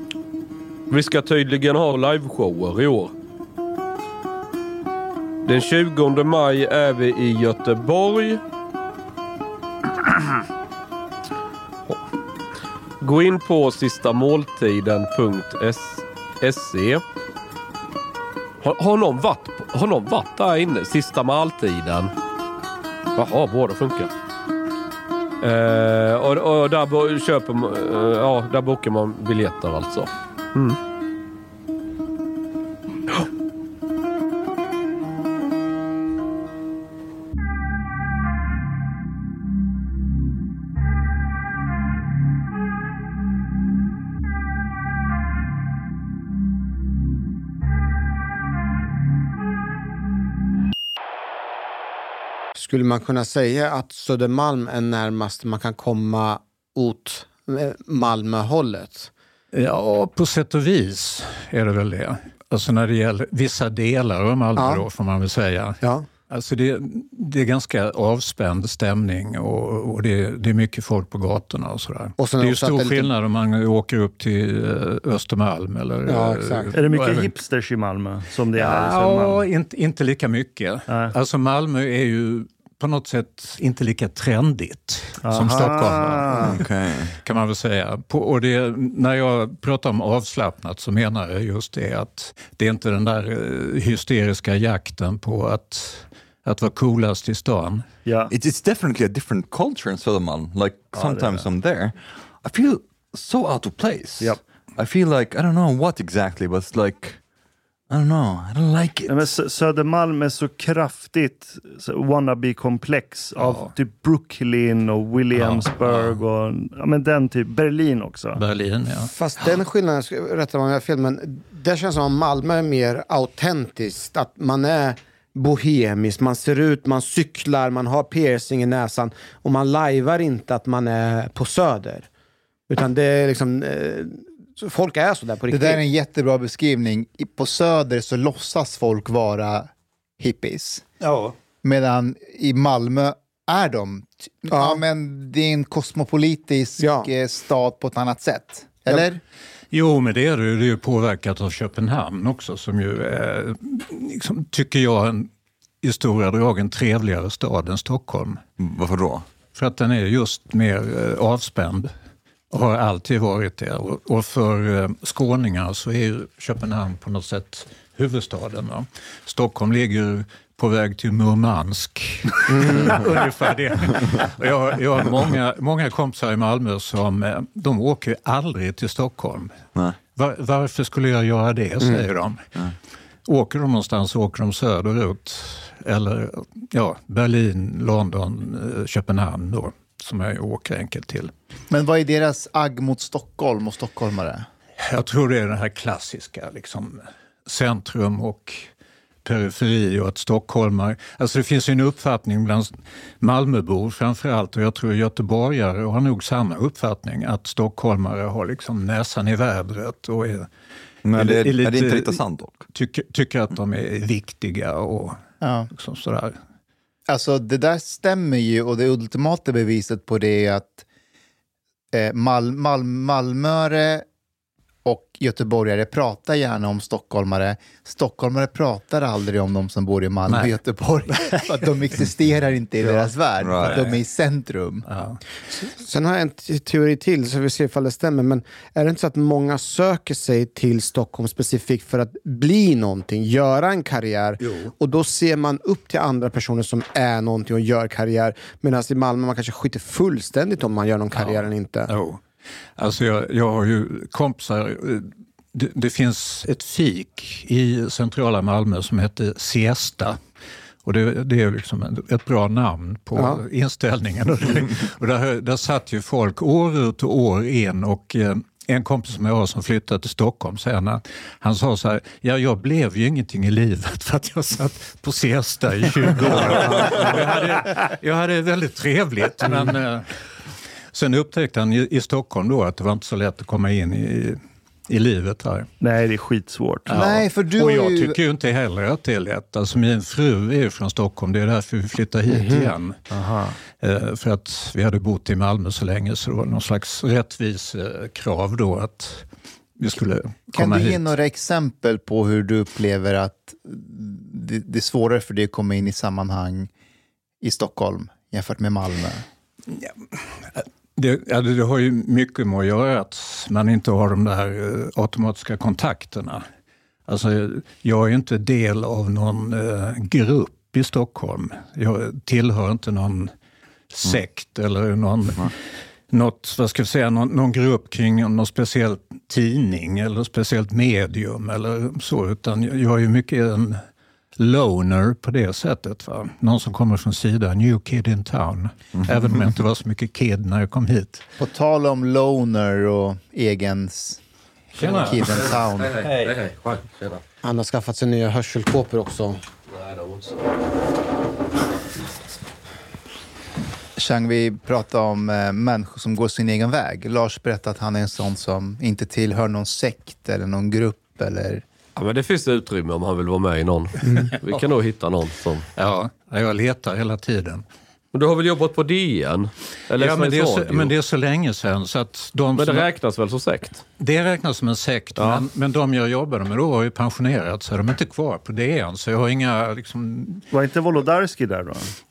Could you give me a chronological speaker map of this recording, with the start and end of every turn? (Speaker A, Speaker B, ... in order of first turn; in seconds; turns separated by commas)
Speaker A: 0.9-3.1, Speaker A: 5.5-8.4, Speaker A: 13.0-17.0, Speaker A: 18.6-22.1, Speaker A: 23.1-24.1, Speaker A: 25.4-30.8, Speaker B: 52.6-59.1, Speaker C: 59.5-77.3, Speaker B: 64.6-64.8, Speaker B: 65.8-66.1, Speaker B: 72.2-73.1, Speaker B: 76.1-76.7, Speaker D: 76.7-79.4, Speaker C: 78.5-86.6, Speaker D: 80.9-81.1, Speaker D: 85.2-86.6, Speaker E: 86.5-87.2, Speaker C: 87.2-97.9, Speaker D: 98.0-98.3, Speaker E: 98.3-107.2, Speaker D: 100.9-101.5, Speaker E: 107.9-109.2, Speaker D: 109.1-118.4, Speaker C: 113.4-113.7, Speaker C: 115.3-116.2, Speaker C: 118.4-119.1, Speaker B: 119.0-132.1, Speaker B: 132.7-135.8, Speaker F: 135.5-140.9, Speaker C: 141.0-141.3, Speaker F: 141.6-149.2, Speaker B: 144.5-144.8, Speaker B: 146.8-147.1, Speaker C: 149.7-155.3, Speaker C: 155.8-158.4, Speaker E: 158.6-159.3, Speaker C: 159.5-161.9, Speaker C: 162.5-182.4, Speaker C: 183.3-191.3, Speaker F: 191.7-194.5, Speaker C: 194.8-198.7, Speaker C: 199.2-210.5, Speaker E: 211.1-212.6, Speaker C: 211.1-216.4, Speaker F: 215.4-215.7, Speaker F: 217.1-220.8, Speaker F: 221.9-224.1, Speaker F: 224.8-234.9, Speaker C: 230.3-230.6, Speaker C: 231.1-231.5, Speaker E: 233.4-233.8, Speaker C: 233.6-233.9, Speaker C: 234.9-235.2, Speaker B: 235.6-251.9, Speaker C: 244.4-244.7, Speaker C: 251.1-252.2, Speaker C: 252.8-260.2, Speaker C: 260.8-280.2, Speaker B: 263.2-263.4, Speaker D: 279.5-279.7, Speaker C: 280.9-285.7, Speaker D: 285.8-286.9, Speaker C: 286.9-293.0, Speaker F: 286.9-288.2, Speaker B: 292.3-292.7, Speaker D: 293.1-293.6, Speaker C: 293.8-299.3, Speaker C: 299.8-301.1, Speaker F: 300.5-306.7, Speaker F: 307.4-309.2, Speaker C: 309.7-316.4, Speaker C: 317.1-323.3, Speaker C: 323.9-325.5, Speaker C: 326.1-333.8, Speaker C: 334.4-341.2, Speaker F: 341.4-344.2, Speaker F: 344.7-346.1, Speaker C: 344.8-345.3, Speaker A: 345.9-347.2, Speaker B: 347.4-349.4, Speaker F: 354.0-361.6, Speaker A: 362.0-365.7, Speaker C: 365.8-367.6, Speaker A: 368.1-370.9, Speaker C: 370.0-372.9, Speaker A: 372.6-373.8, Speaker C: 374.0-380.4, Speaker A: 375.2-375.4, Speaker D: 380.5-381.9